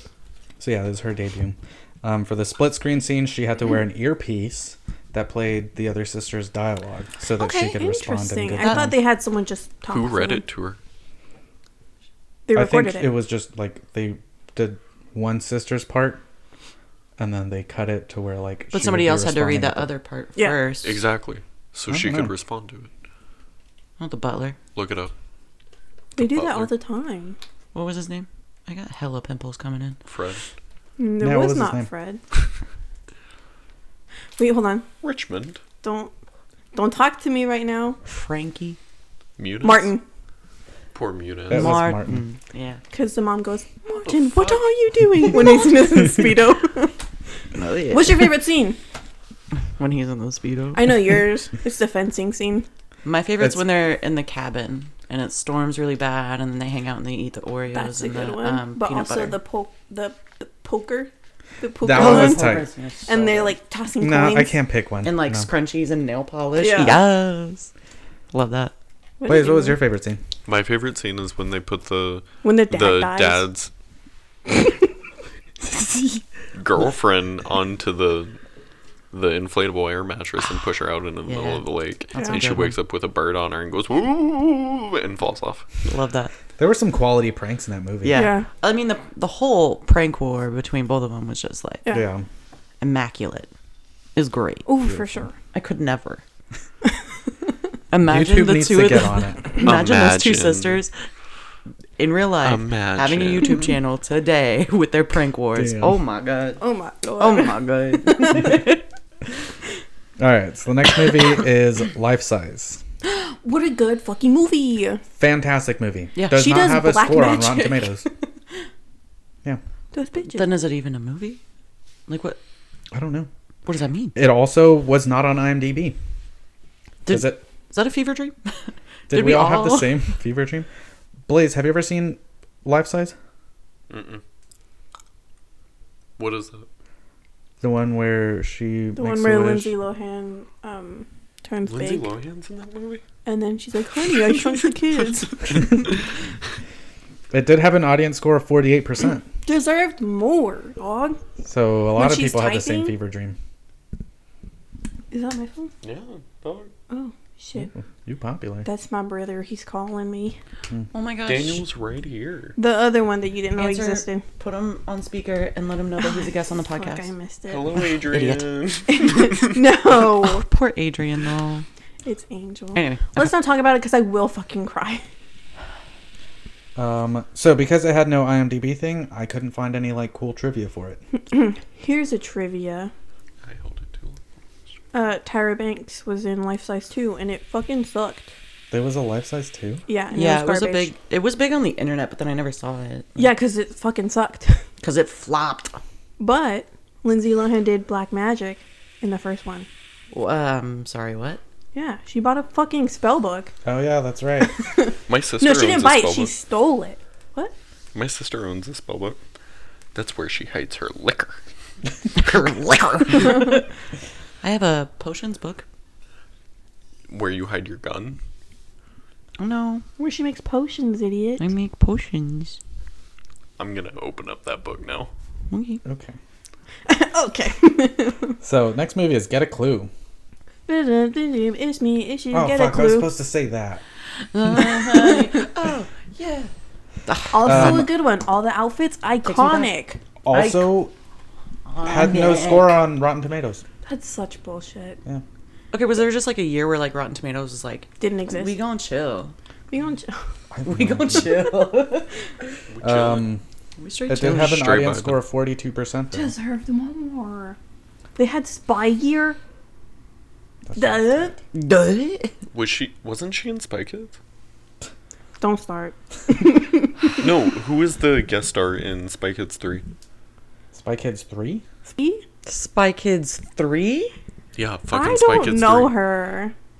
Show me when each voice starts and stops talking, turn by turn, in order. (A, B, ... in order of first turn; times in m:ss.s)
0:00.6-0:09.0 A
0:07.4-0:10.4 B
0:08.6-0:08.9 C
0:09.9-0:10.8 D
0:12.5-0:13.1 B
0:12.5-0:16.2 A
0:17.2-0:19.9 A
0:18.7-0:21.0 C
0:20.4-0:20.6 B
0:20.8-0:22.9 D
0:21.9-0:22.3 A
0:24.0-0:24.6 C
0:24.7-0:25.1 D
0:26.2-0:26.7 D
0:26.2-0:27.4 B
0:27.7-0:30.0 C
0:30.0-0:30.4 D
0:31.0-0:32.2 B
0:31.2-0:31.9 A
0:34.4-0:34.8 B
0:35.0-0:35.6 D
0:35.8-0:36.1 B
0:36.7-0:38.0 B
0:38.0-0:38.8 C
0:39.4-0:39.9 D
0:39.6-0:40.0 B
0:40.9-0:41.8 D
0:41.5-0:42.2 A
0:41.5-0:42.8 C
0:42.9-0:47.0 B
0:44.0-0:44.7 D
0:45.3-0:45.6 D
0:47.5-0:48.4 C
0:47.9-0:48.8 B
0:49.6-0:51.1 C
0:50.7-0:52.7 B
0:53.0-0:59.4 C
0:57.7-1:04.5 B
1:01.8-1:02.7 A
1:01.9-1:03.6 C
1:04.0-1:05.5 A
1:05.0-1:07.7 C
1:06.6-1:07.0 B
1:08.3-1:08.7 C
1:09.2-1:09.8 B
1:09.3-1:10.2 A
1:10.4-1:13.7 D
1:12.4-1:13.4 B
1:15.7-1:16.0 B
1:16.5-1:18.4 D
1:19.1-1:25.7 D
1:21.2-1:22.8 C
1:22.2-1:22.4 B
1:25.8-1:26.3 C
1:26.6-1:28.2 A
1:28.0-1:31.9 C
1:28.1-1:28.5 B
1:31.9-1:32.2 A
1:32.8-1:33.5 C
1:34.2-1:34.7 C
1:34.6-1:35.3 B
1:34.8-1:35.2 A
1:35.5-1:36.2 C
1:37.9-1:40.9 C
1:38.0-1:39.6 A
1:39.6-1:40.8 D
1:42.0-1:46.6 C
1:42.4-1:43.7 D
1:45.5-1:46.0 A
1:46.6-1:48.7 B
1:47.2-1:48.8 C
1:50.2-1:52.8 A
1:53.4-1:55.0 B
1:55.2-1:58.0 A
1:56.1-1:56.5 C
1:56.3-1:58.0 B
1:59.9-2:00.6 B
2:00.2-2:01.4 C
2:02.1-2:02.4 C
2:02.9-2:03.3 A
2:03.6-2:04.2 C
2:04.1-2:06.0 A
2:07.0-2:10.0 C
2:07.1-2:07.4 A
2:09.1-2:10.7 A
2:11.3-2:13.1 A
2:13.9-2:14.2 D
2:16.2-2:16.7 D
2:17.6-2:19.7 A
2:18.9-2:22.1 B
2:21.6-2:23.0 D
2:23.2-2:25.7 B
2:24.1-2:25.7 D
2:27.3-2:29.2 A
2:29.4-2:31.2 B
2:31.4-2:33.4 A
2:32.0-2:32.9 B
2:35.1-2:35.7 B
2:35.8-2:36.7 D
2:36.9-2:37.7 B
2:37.6-2:38.7 A
2:38.6-2:40.4 B
2:40.9-2:41.6 C
2:41.2-2:42.6 D
2:42.6-2:44.2 B
2:43.6-2:47.1 C
2:46.0-2:47.8 B
2:47.5-2:49.6 D
2:47.8-2:48.6 C
2:48.9-2:50.4 B
2:50.1-2:51.6 C
2:52.0-2:55.0 B
2:52.7-2:53.4 C
2:56.8-3:01.0 A
3:01.2-3:02.9 B
3:03.4-3:04.2 D
3:04.9-3:08.3 B
3:08.7-3:09.8 A
3:09.9-3:10.9 B
3:10.1-3:13.3 C
3:13.2-3:14.6 B
3:14.8-3:15.8 C
3:16.2-3:19.7 B
3:20.1-3:21.4 C
3:21.7-3:23.5 B
3:23.6-3:24.6 A
3:24.4-3:27.5 B
3:25.1-3:26.3 D
3:27.9-3:29.2 D
3:29.9-3:31.4 D
3:32.2-3:33.6 C
3:34.4-3:35.6 C
3:37.1-3:38.2 D
3:39.4-3:39.8 C
3:40.0-3:41.5 B
3:41.4-3:42.6 C
3:43.6-3:45.1 D
3:45.5-3:45.8 C
3:45.8-3:46.2 A
3:46.9-3:48.3 B
3:48.4-3:49.9 A
3:50.7-3:53.1 B
3:52.3-3:53.8 A
3:54.3-3:56.5 C
3:54.9-3:55.3 B
3:57.1-3:57.9 C
3:57.3-4:00.0 B
3:57.4-3:57.9 A
3:59.2-3:59.7 C
4:00.2-4:00.9 A
4:00.3-4:00.7 C
4:01.7-4:02.8 C
4:01.8-4:03.6 A
4:03.8-4:05.0 B
4:05.7-4:09.3 C
4:08.0-4:08.6 B
4:09.7-4:10.1 B
4:10.5-4:11.5 A
4:10.6-4:12.1 C
4:12.7-4:13.3 D
4:12.8-4:13.4 A
4:13.8-4:14.7 C
4:14.1-4:16.3 A
4:14.3-4:15.2 D
4:16.1-4:17.6 B
4:18.2-4:19.4 B
4:20.7-4:21.4 A
4:20.8-4:21.3 B
4:21.5-4:22.3 C
4:22.5-4:24.2 D
4:25.4-4:27.2 B
4:27.1-4:29.8 D
4:30.7-4:31.6 A
4:31.9-4:32.2 B
4:32.4-4:34.1 C
4:34.5-4:35.9 D
4:34.9-4:36.5 B